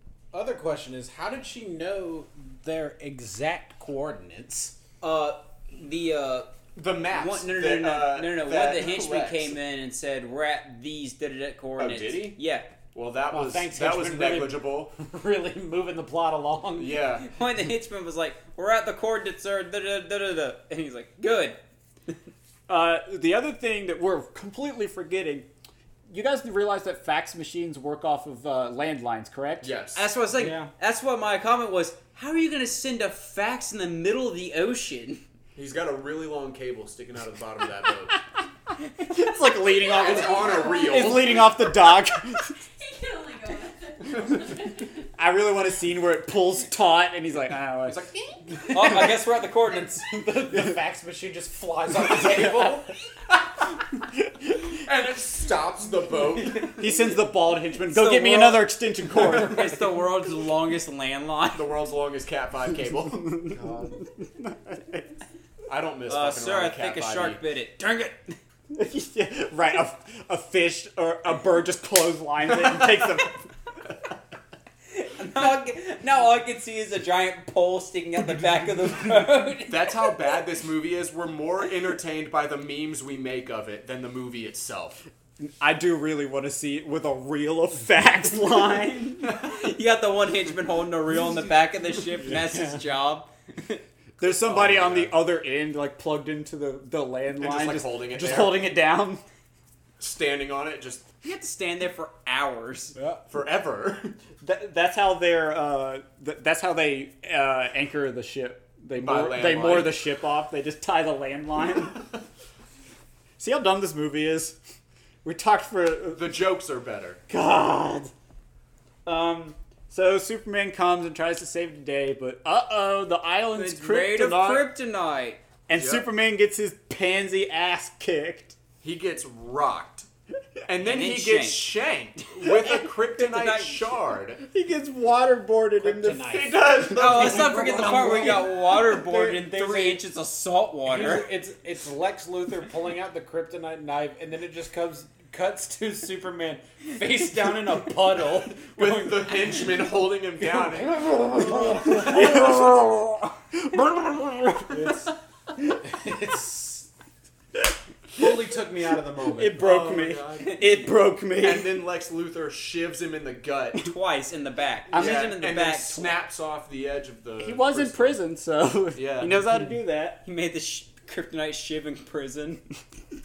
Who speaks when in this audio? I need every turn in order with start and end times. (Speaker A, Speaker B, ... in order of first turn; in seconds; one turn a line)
Speaker A: 0.3-4.8
Speaker B: 5.0-6.5
Speaker C: 6.8-9.6
Speaker B: 7.1-12.7
Speaker C: 11.8-12.4
Speaker C: 12.9-14.9
Speaker A: 13.3-17.0
Speaker C: 16.8-17.3
Speaker B: 17.2-21.6
Speaker D: 22.7-25.5
Speaker D: 26.1-29.7
Speaker C: 29.6-30.1
Speaker B: 29.9-35.2
Speaker A: 30.4-30.7
Speaker C: 35.5-38.2
Speaker D: 39.0-42.5
Speaker E: 39.8-41.4
Speaker C: 39.9-41.5
Speaker E: 42.4-44.9
Speaker D: 45.2-48.1
Speaker C: 47.9-49.0
Speaker B: 48.7-50.1
Speaker A: 50.0-52.9
Speaker D: 50.5-50.8
Speaker D: 52.3-52.8
Speaker C: 54.7-56.9
Speaker D: 56.7-59.9
Speaker B: 57.9-61.7
Speaker C: 61.5-63.5
Speaker D: 63.1-65.2
Speaker C: 65.7-67.4
Speaker B: 66.1-68.4
Speaker D: 68.7-73.5
Speaker B: 74.9-80.0
Speaker C: 79.7-85.0
Speaker D: 85.4-89.4
Speaker B: 89.4-93.8
Speaker A: 92.2-92.8
Speaker D: 94.2-99.2
Speaker C: 94.5-95.1
Speaker C: 97.4-98.7
Speaker C: 100.0-101.1
Speaker B: 101.2-103.0
Speaker A: 103.0-103.2
Speaker C: 103.3-104.1
Speaker D: 104.4-112.0
Speaker C: 109.0-110.1
Speaker D: 113.4-114.6
Speaker D: 115.2-116.4
Speaker C: 116.1-117.2
Speaker D: 117.3-118.1
Speaker D: 119.1-124.7
Speaker B: 123.5-125.4
Speaker D: 125.7-128.6
Speaker C: 125.7-126.1
Speaker C: 128.8-130.1
Speaker C: 130.7-134.4
Speaker B: 130.8-131.7
Speaker B: 133.2-133.9
Speaker D: 134.5-139.8
Speaker A: 135.8-138.5
Speaker C: 136.3-138.4
Speaker B: 136.9-141.3
Speaker A: 140.9-149.3
Speaker C: 148.7-152.6
Speaker A: 150.6-152.3
Speaker D: 151.7-155.1
Speaker A: 154.7-155.1
Speaker A: 155.8-156.9
Speaker A: 158.1-159.7
Speaker D: 159.3-161.8
Speaker C: 159.6-160.5
Speaker C: 161.4-163.9
Speaker B: 163.8-166.2
Speaker D: 164.9-165.4
Speaker C: 164.9-168.2
Speaker D: 167.4-170.2
Speaker C: 168.9-169.5
Speaker B: 170.2-172.6